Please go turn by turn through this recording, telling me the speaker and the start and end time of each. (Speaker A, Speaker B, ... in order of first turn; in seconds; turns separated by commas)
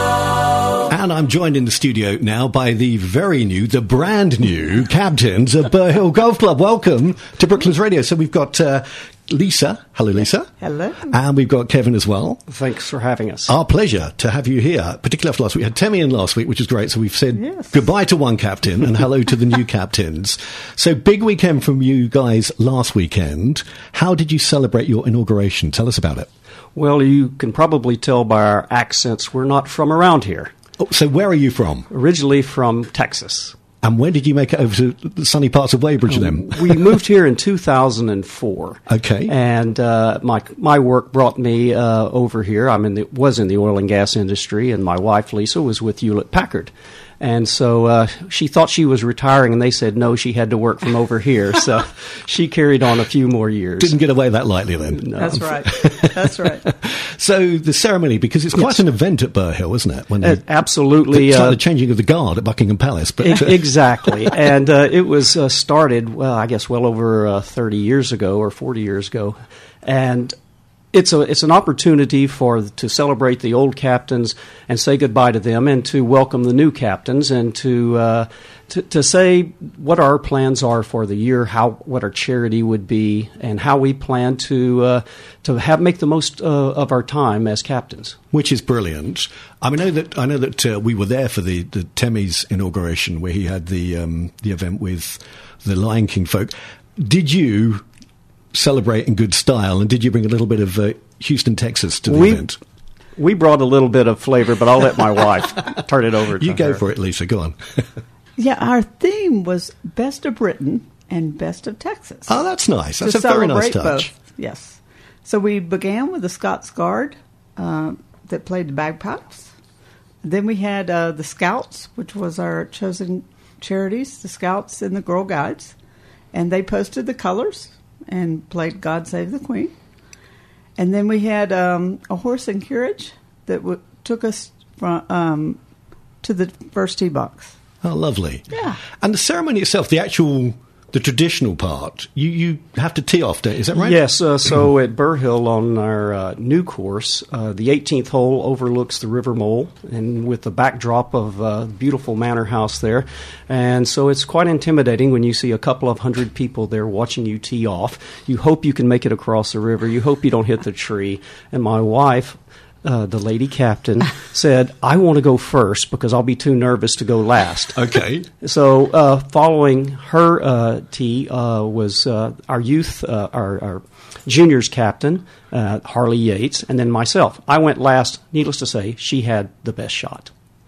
Speaker A: 0.9-10.5, Speaker B: 10.6-11.1, Speaker A: 11.1-12.4, Speaker C: 12.5-13.5, Speaker A: 13.5-26.3, Speaker B: 17.4-17.7, Speaker C: 26.7-30.5, Speaker A: 30.8-31.9, Speaker C: 31.9-33.6, Speaker A: 33.8-36.8, Speaker C: 36.1-54.0, Speaker A: 38.9-39.3, Speaker A: 53.8-60.4, Speaker C: 55.0-55.5, Speaker B: 55.2-56.6, Speaker C: 60.2-61.6, Speaker A: 61.1-63.7, Speaker C: 63.2-70.3, Speaker C: 70.9-88.2, Speaker A: 88.3-97.8, Speaker A: 98.5-102.6, Speaker C: 102.1-102.4, Speaker C: 103.2-106.8, Speaker A: 106.4-107.6, Speaker B: 108.4-112.4, Speaker A: 112.3-114.1, Speaker B: 113.0-119.5, Speaker B: 120.2-125.7, Speaker B: 126.3-129.7, Speaker B: 130.8-135.6, Speaker B: 136.2-137.5, Speaker A: 137.8-144.0, Speaker B: 138.5-138.8, Speaker C: 143.7-167.8, Speaker A: 167.7-168.3, Speaker C: 168.4-180.3